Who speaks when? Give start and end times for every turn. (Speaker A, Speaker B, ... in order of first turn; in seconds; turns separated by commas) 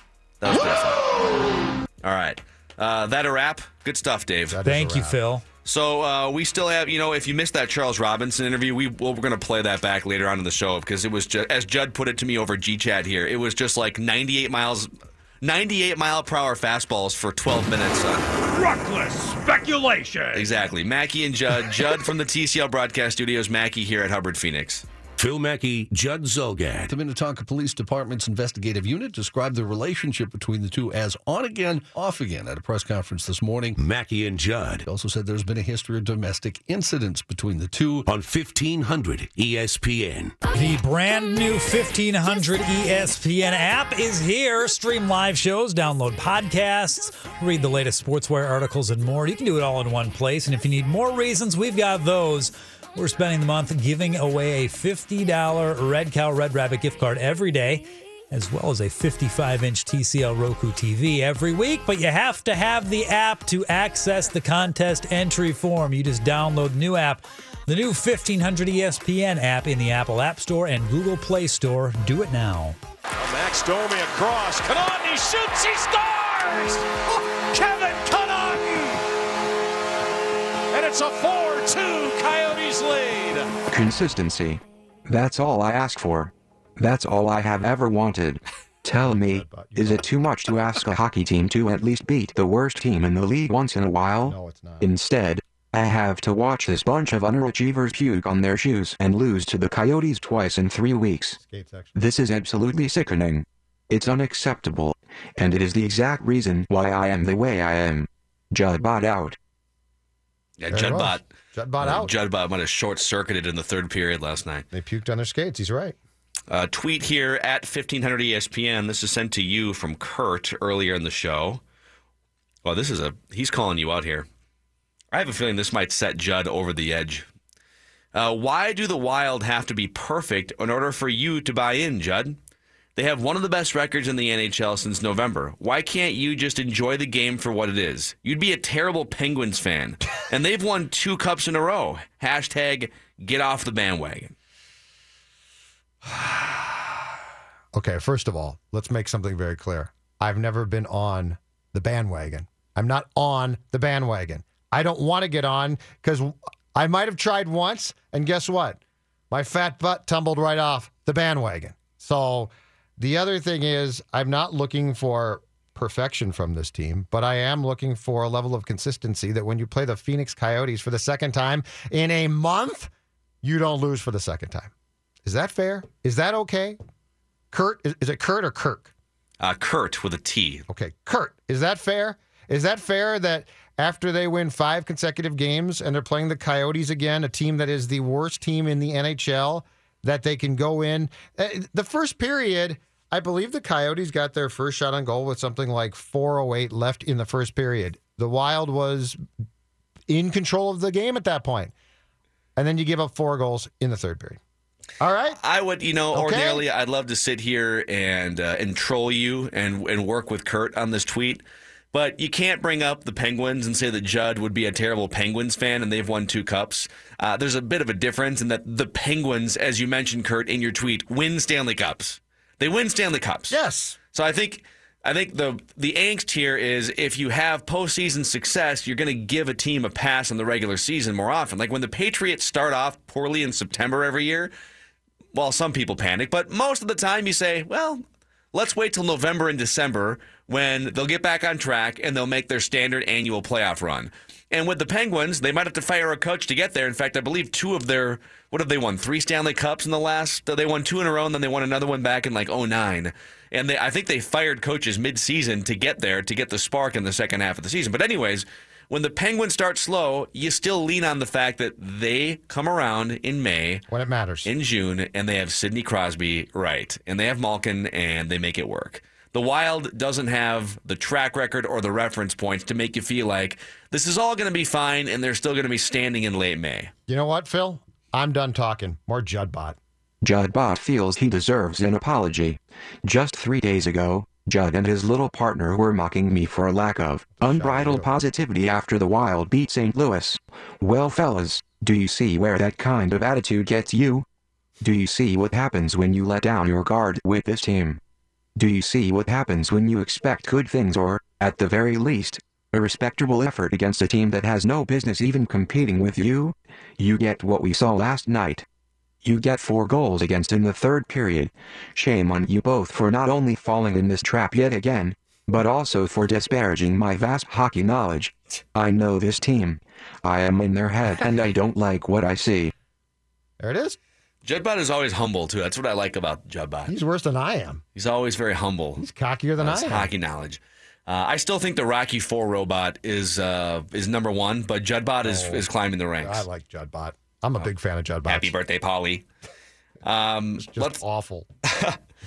Speaker A: 0.4-1.1, Speaker A: 2.0-4.6, Speaker B: 4.5-5.2, Speaker C: 4.6-5.4, Speaker A: 5.6-14.9, Speaker A: 15.4-18.3, Speaker C: 18.6-20.4, Speaker A: 20.3-24.8, Speaker D: 25.2-26.9, Speaker E: 26.9-33.8, Speaker D: 33.8-34.9, Speaker E: 34.9-38.0, Speaker D: 38.0-40.4, Speaker C: 40.5-72.8, Speaker F: 73.2-79.0, Speaker F: 80.7-83.5, Speaker G: 83.7-101.4, Speaker B: 88.9-90.0, Speaker B: 94.2-94.9, Speaker B: 101.4-102.0, Speaker G: 101.9-109.4, Speaker A: 110.6-111.2, Speaker B: 110.7-112.1, Speaker A: 111.8-114.7, Speaker B: 114.7-116.0, Speaker A: 116.5-121.6, Speaker A: 122.6-124.2, Speaker A: 125.1-127.3, Speaker A: 128.1-132.4, Speaker A: 132.9-144.3, Speaker B: 146.0-147.0, Speaker B: 147.7-172.9, Speaker B: 173.4-174.7, Speaker B: 175.2-176.8, Speaker B: 177.5-178.9, Speaker A: 179.4-180.6, Speaker B: 180.7-199.2, Speaker B: 200.1-201.7, Speaker B: 202.6-204.4, Speaker B: 205.0-205.4, Speaker A: 205.4-223.6, Speaker B: 206.1-206.6, Speaker B: 223.5-224.0, Speaker A: 224.1-234.5, Speaker A: 235.3-263.8, Speaker B: 263.9-264.5, Speaker A: 264.4-276.9, Speaker B: 277.1-279.8, Speaker G: 280.2-294.2, Speaker B: 287.4-288.1, Speaker G: 294.8-298.0, Speaker G: 298.6-308.6, Speaker G: 309.2-322.7, Speaker B: 323.6-324.0, Speaker A: 324.4-326.9, Speaker B: 326.9-327.8, Speaker A: 327.9-329.0, Speaker B: 329.0-330.1, Speaker A: 329.6-336.4, Speaker B: 335.2-335.7, Speaker B: 336.2-338.5, Speaker A: 338.2-339.2, Speaker A: 340.0-341.0, Speaker B: 340.6-341.5, Speaker A: 341.6-342.0